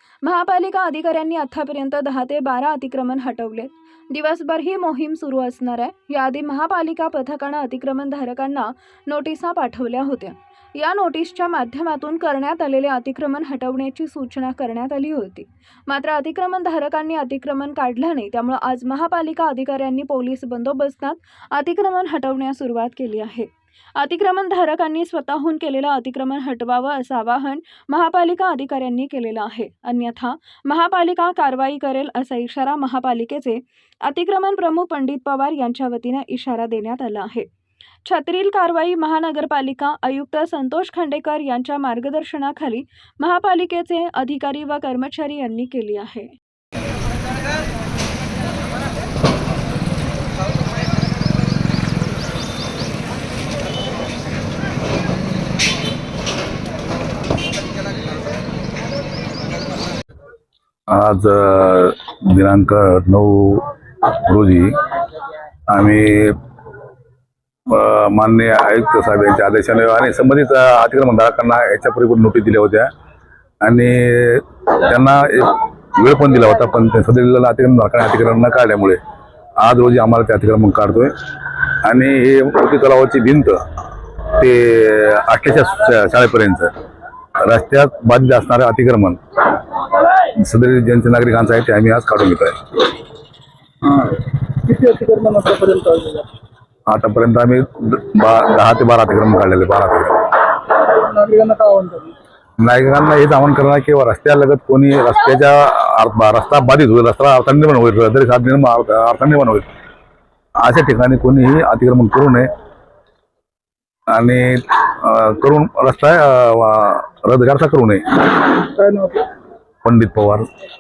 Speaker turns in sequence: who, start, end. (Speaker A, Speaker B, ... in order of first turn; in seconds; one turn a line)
Speaker A: 0.2-37.5
Speaker A: 38.0-46.3
Speaker B: 60.9-64.9
Speaker B: 65.7-66.4
Speaker B: 67.7-72.9
Speaker B: 73.6-79.0
Speaker B: 79.6-83.6
Speaker B: 84.2-86.7
Speaker B: 87.4-92.6
Speaker C: 94.6-96.2
Speaker B: 96.9-100.4
Speaker C: 101.0-102.1
Speaker B: 102.6-109.7
Speaker B: 110.6-112.5
Speaker B: 114.1-118.4
Speaker C: 118.7-119.2
Speaker B: 119.8-120.5